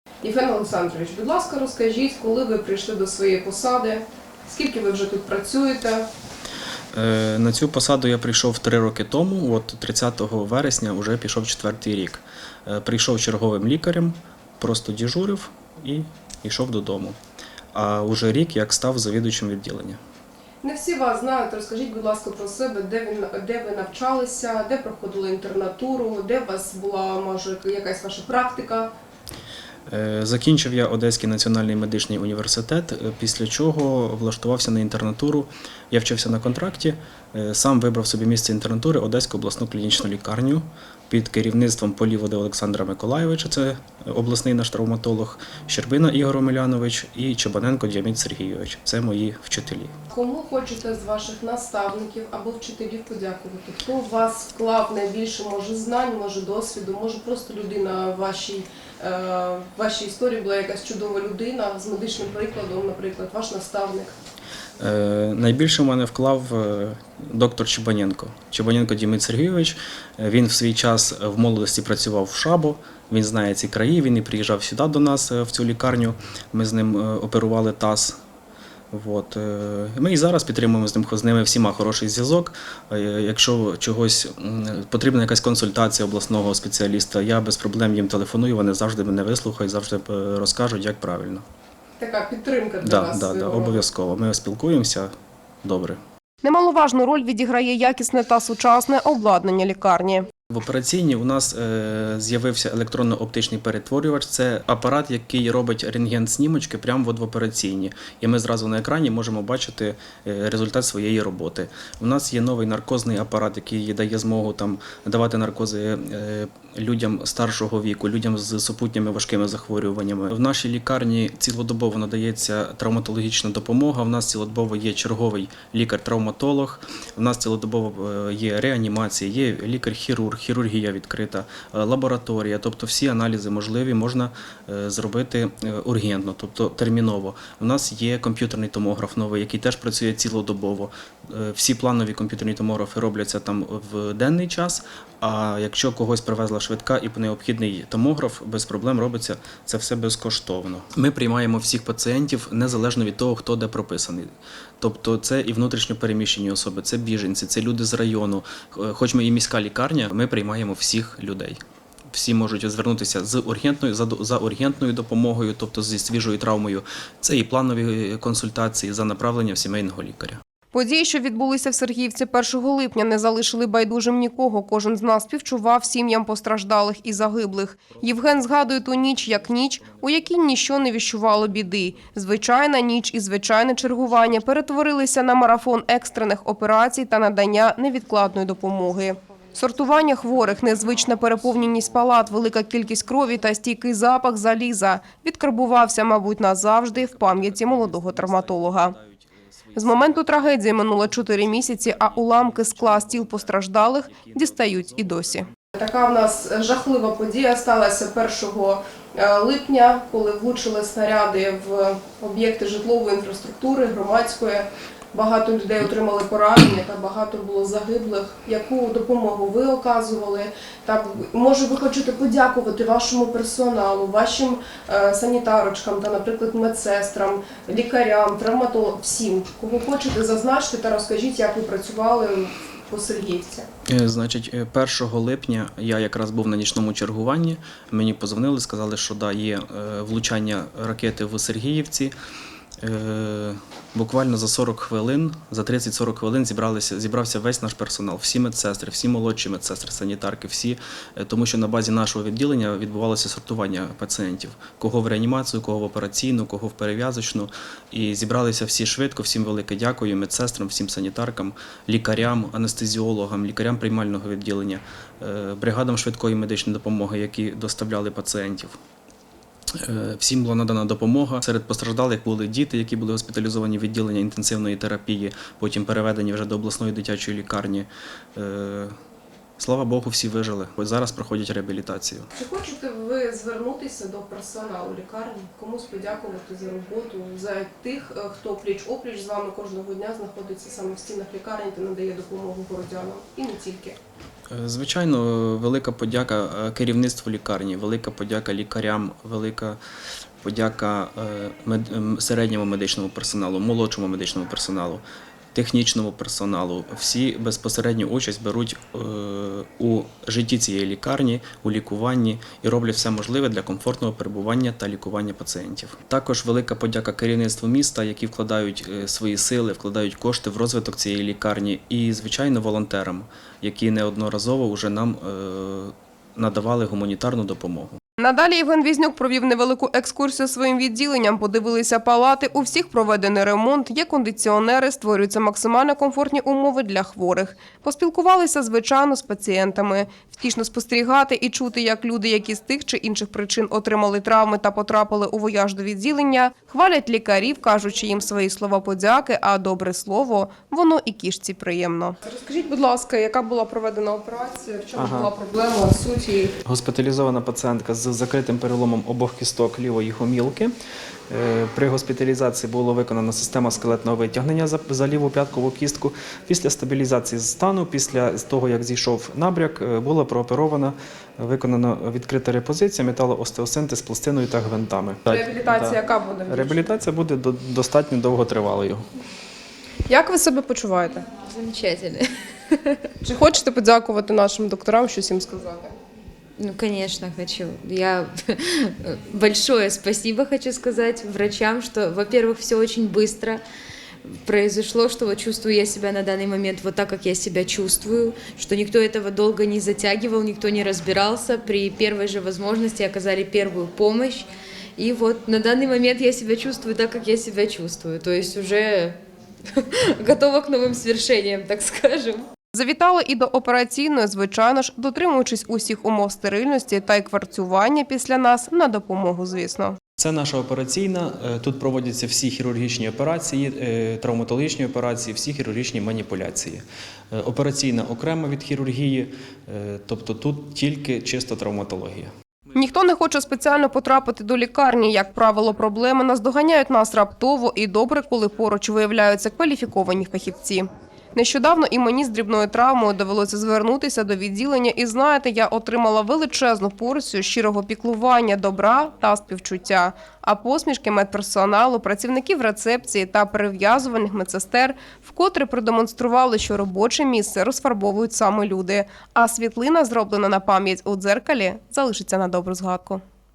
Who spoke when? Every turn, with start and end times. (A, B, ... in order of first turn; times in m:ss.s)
0:00.2-0:06.1 A
0:06.9-0:17.2 B
0:17.7-0:20.0 B
0:20.6-0:28.9 A
0:29.9-0:49.9 B
0:50.1-1:04.1 A
1:04.8-1:18.2 B
1:18.9-1:31.4 B
1:32.0-1:33.8 A
1:32.8-1:35.1 B
1:35.6-1:36.0 B
1:36.4-1:40.3 A
1:40.5-2:41.6 B
2:42.1-2:50.4 B
2:50.7-3:18.9 A
3:16.9-3:25.5 B
3:19.7-3:53.7 A
3:53.9-4:02.1 B
4:02.8-4:28.8 B
4:29.7-4:38.9 B
4:39.6-4:42.3 B
4:42.3-4:54.0 A
4:54.5-4:59.8 B
5:00.4-5:05.0 B
5:05.5-5:28.0 B
5:28.2-5:56.5 A
5:54.9-5:55.3 B
5:56.6-6:00.7 B
6:01.3-6:19.0 B
6:15.3-6:16.8 A
6:20.1-6:21.3 A
6:21.4-6:23.0 C
6:23.2-6:25.9 A
6:26.6-6:33.6 C
6:34.2-6:49.2 C
6:49.7-6:52.4 C
6:52.7-7:00.0 A
7:00.2-7:12.3 B
7:12.7-7:43.2 A